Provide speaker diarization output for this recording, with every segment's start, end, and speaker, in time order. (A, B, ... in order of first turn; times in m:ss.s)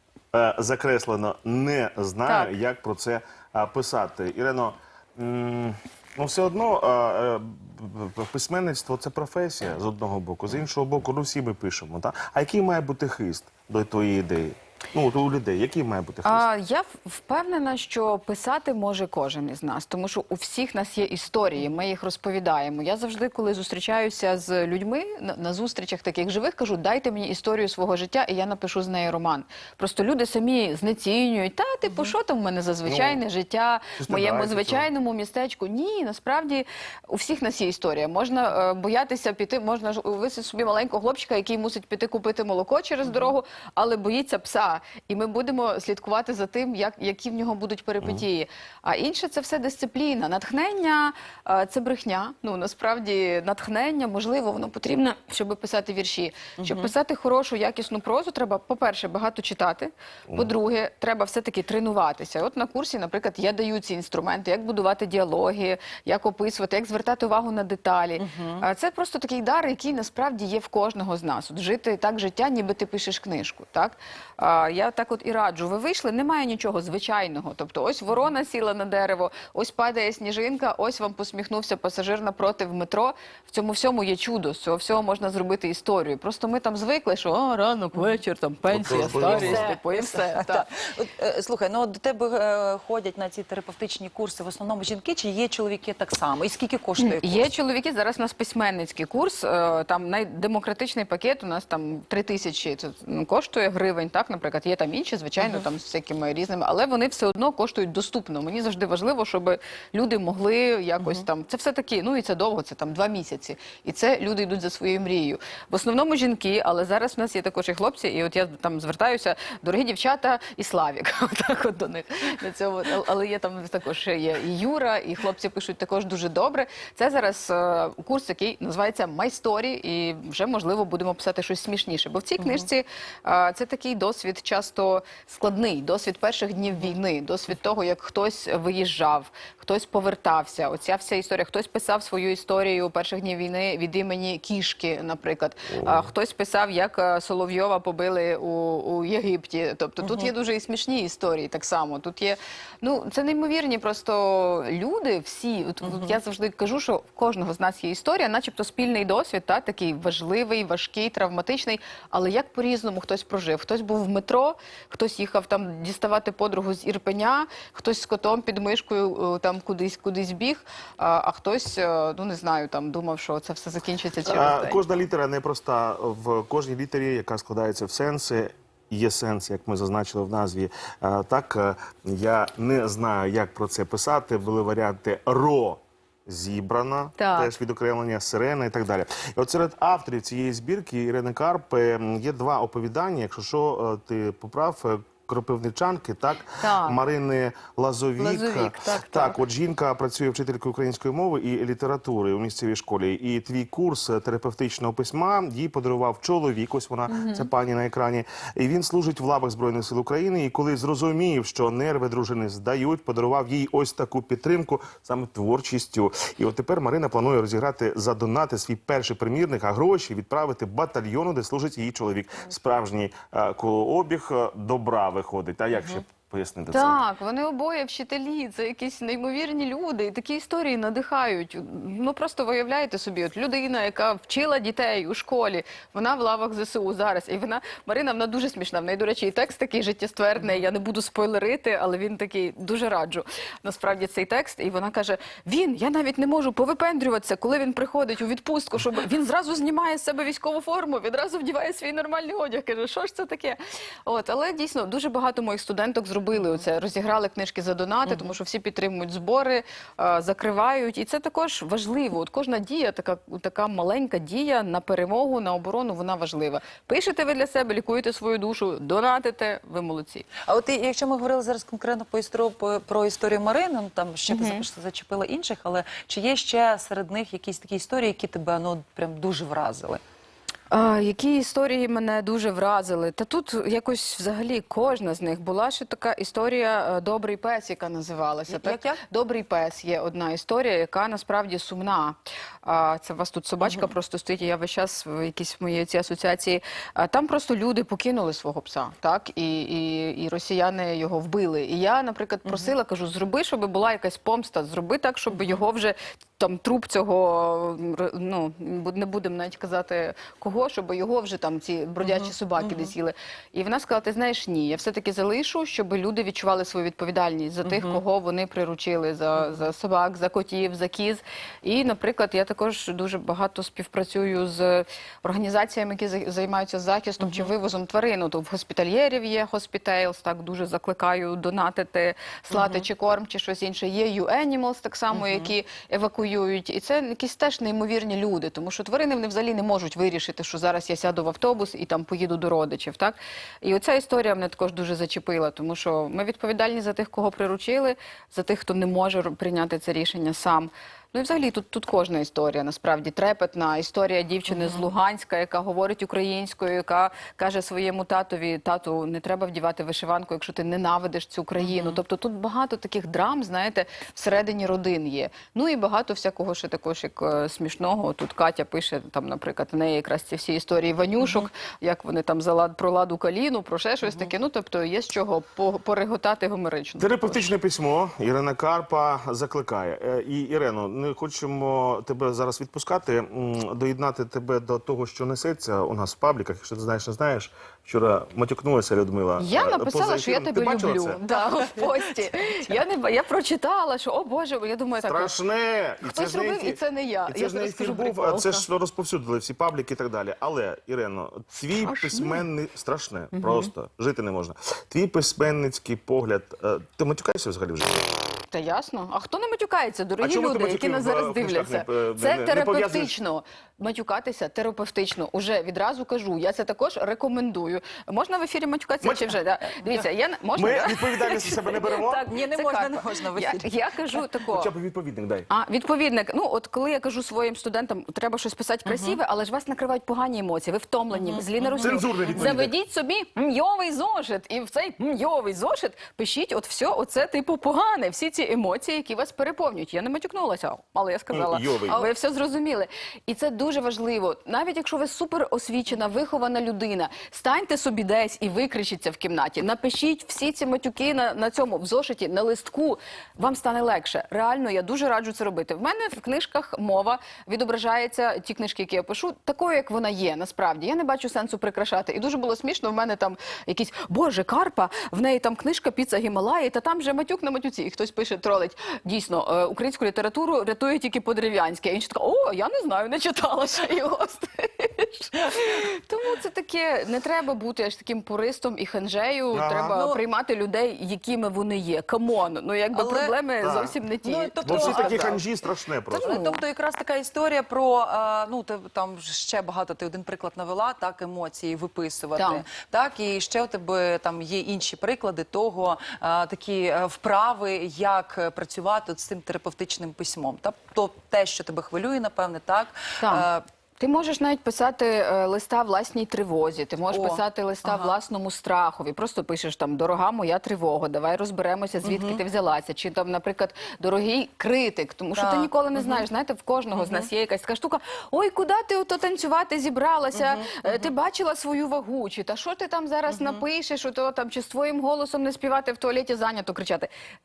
0:00.3-0:16.4 A
0:02.2-0:02.5 B
0:16.2-1:30.6 B
0:32.8-0:33.2 A
0:34.0-0:34.9 A
0:43.0-0:43.3 C
0:56.6-0:56.9 C
1:08.2-1:08.6 C
1:28.7-1:29.6 A
1:28.9-1:37.5 C
1:37.0-2:54.8 B
1:45.4-1:45.6 C
1:51.0-1:51.2 C
2:12.4-2:12.7 C
2:30.0-2:30.3 C
2:35.8-2:36.2 C
2:54.2-3:47.0 A
3:07.2-3:07.5 B
3:16.6-3:17.0 B
3:18.2-3:19.4 B
3:27.1-3:27.5 B
3:46.7-4:30.3 B
4:16.4-4:16.6 C
4:18.1-4:18.3 C
4:30.4-4:40.0 C
4:34.3-4:34.6 B
4:40.7-6:17.5 B
4:48.5-4:49.0 C
4:53.6-4:53.9 C
5:02.4-5:02.7 C
5:05.3-5:05.6 C
5:12.0-5:12.9 C
5:17.6-5:18.0 C
5:27.2-5:27.5 C
5:32.5-5:32.8 C
5:35.1-5:35.5 C
5:54.5-5:54.9 C
6:01.6-6:02.0 C
6:11.2-6:11.5 C
6:14.0-6:14.3 C
6:17.0-6:31.2 A
6:29.4-6:35.4 B
6:31.3-6:32.5 C
6:35.0-6:48.1 A
6:36.0-6:38.7 B
6:41.8-6:42.4 B
6:43.3-6:43.7 B
6:48.5-7:04.7 B
6:50.2-6:53.1 A
6:59.0-6:59.3 A
7:00.5-7:02.2 A
7:02.0-7:04.2 C
7:04.5-7:05.5 A
7:05.5-8:05.4 B
7:08.8-7:09.2 C
7:11.1-7:12.5 C
7:11.8-7:12.7 A
7:21.3-7:22.0 A
7:59.5-8:00.0 A
7:59.9-8:00.2 C
8:02.9-8:03.3 C
8:03.6-8:03.9 A
8:04.2-8:05.4 C
8:04.6-8:06.4 A
8:06.1-8:06.6 B
8:06.1-8:23.6 C
8:12.4-8:12.6 B
8:23.2-8:23.5 B
8:24.0-8:47.1 B
8:27.1-8:28.1 C
8:32.0-8:32.4 C
8:35.4-8:36.2 C
8:36.9-8:37.3 C
8:40.3-8:41.1 C
8:43.3-8:43.6 C